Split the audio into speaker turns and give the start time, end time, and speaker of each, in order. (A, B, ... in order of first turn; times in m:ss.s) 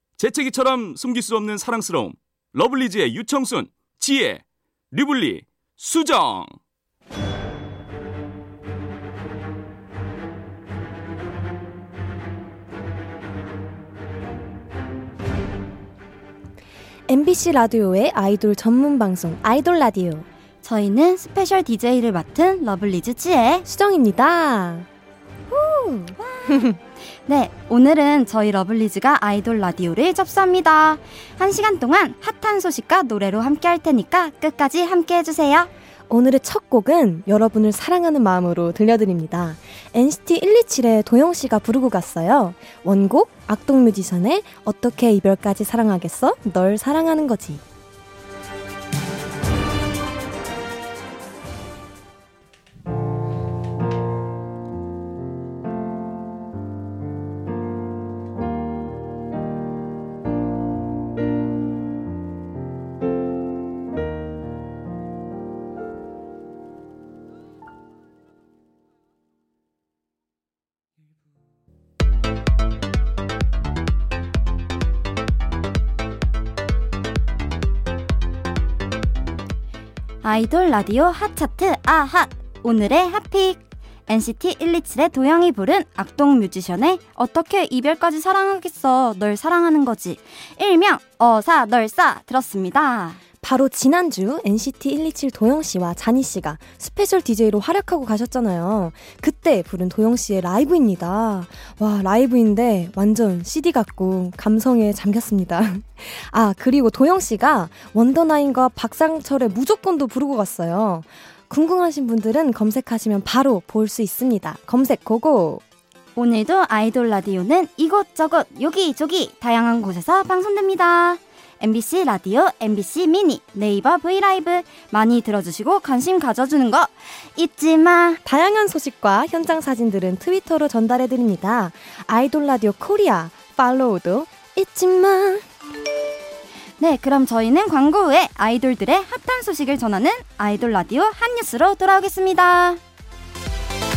0:00.2-0:06.6 A
0:17.1-0:20.2 B
0:20.6-0:23.6 C
0:23.7-0:24.9 B
0:25.5-0:26.6 C
0:26.0-0:26.8 B
0:27.2-0:35.7 C
0:36.1-0:47.6 B
1:20.2-1:33.2 C
1:33.4-1:55.6 B
1:56.1-2:08.2 C
2:08.2-2:15.4 B
2:16.8-2:22.8 C